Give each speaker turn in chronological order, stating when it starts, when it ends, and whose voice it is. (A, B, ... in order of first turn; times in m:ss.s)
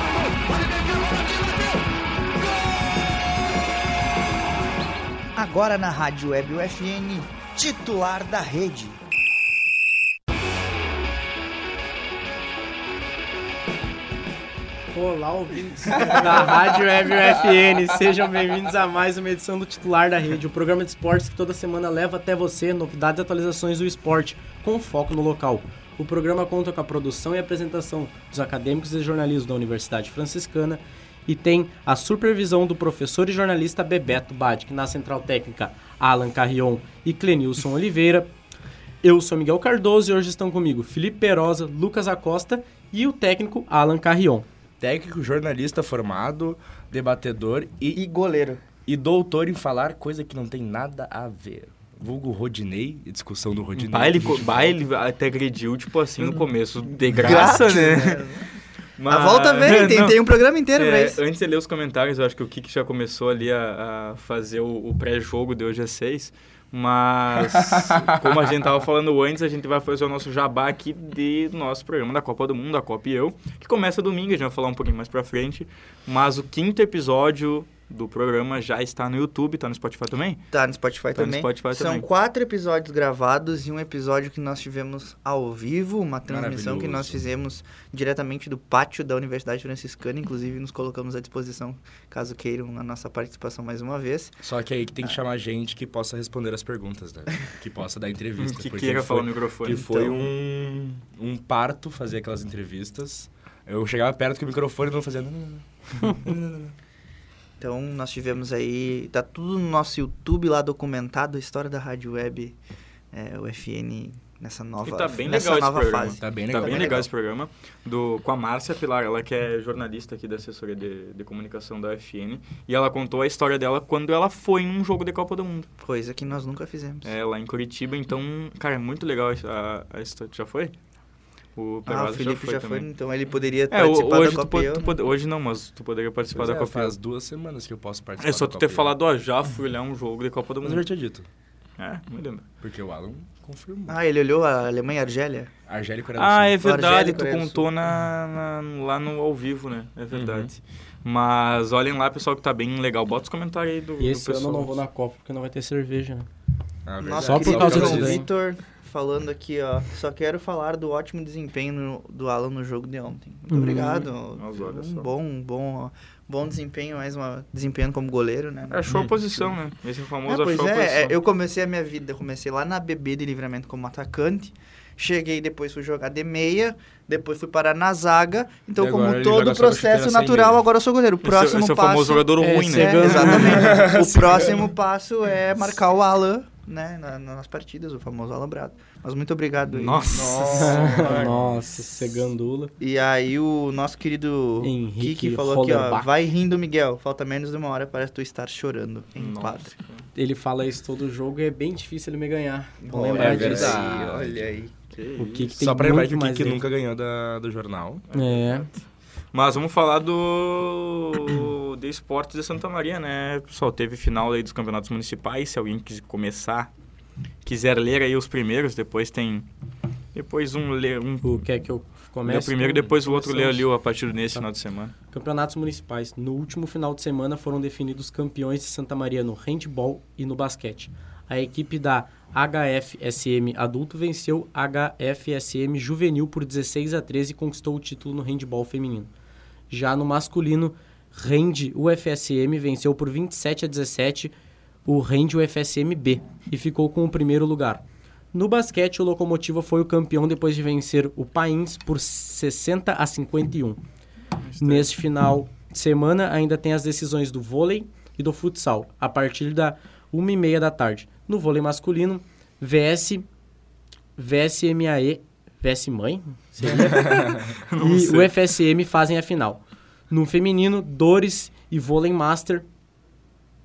0:05.3-0:09.0 A
0:14.9-0:38.3 B
0:39.0-0:44.4 B
0:44.8-0:48.0 C
0:47.9-0:48.6 A
0:48.8-0:54.8 C
0:53.8-0:58.3 D
0:57.0-0:58.5 A
0:59.0-1:00.2 D
0:59.1-1:01.2 A
1:00.7-1:20.4 D
1:07.4-1:08.5 C
1:20.5-1:34.4 A
1:21.1-1:22.0 D
1:26.3-1:27.2 C
1:34.4-1:46.7 C
1:38.4-1:39.9 D
1:39.9-1:40.3 A
1:47.6-1:52.6 A
1:53.1-1:57.1 A
1:54.8-2:05.7 D
1:56.2-1:57.1 C
2:05.8-2:07.1 A
2:07.0-2:10.7 D
2:11.6-2:12.9 D
2:11.9-2:14.9 A
2:13.7-2:17.0 D
2:16.3-2:18.9 C
2:18.2-2:20.8 D
2:20.6-2:21.2 C
2:21.8-2:22.4 D
2:22.6-2:24.0 C
2:23.9-2:25.5 A
2:25.6-2:26.6 C
2:26.2-2:34.8 D
2:26.6-2:27.7 A
2:30.1-2:30.5 C
2:34.0-2:36.3 B
2:36.8-2:38.2 C
2:37.0-2:48.8 A
2:37.2-2:38.3 B
2:43.5-2:44.1 B
2:43.6-2:45.1 D
2:48.7-2:51.2 D
2:50.3-3:11.3 A
2:58.8-3:00.6 C
3:01.2-3:03.8 D
3:02.4-3:03.9 B
3:03.4-3:04.7 C
3:09.7-3:11.1 D
3:10.1-3:11.5 C
3:10.5-3:12.7 B
3:12.8-3:19.7 A
3:14.6-3:16.1 B
3:19.2-3:20.0 D
3:20.1-3:23.8 B
3:22.8-3:24.7 A
3:23.1-3:24.5 C
3:24.9-3:25.5 D
3:25.2-3:26.6 B
3:25.6-3:28.0 C
3:28.1-3:28.8 D
3:28.1-3:28.7 B
3:29.3-3:36.7 D
3:37.4-3:39.5 D
3:40.1-3:41.4 D
3:41.2-3:43.7 B
3:42.2-3:44.9 D
3:45.1-3:59.1 B
3:59.7-4:04.3 B
4:04.8-4:13.8 B
4:14.4-4:14.9 D
4:14.6-4:23.2 B
4:24.2-4:32.6 B
4:27.0-4:28.3 D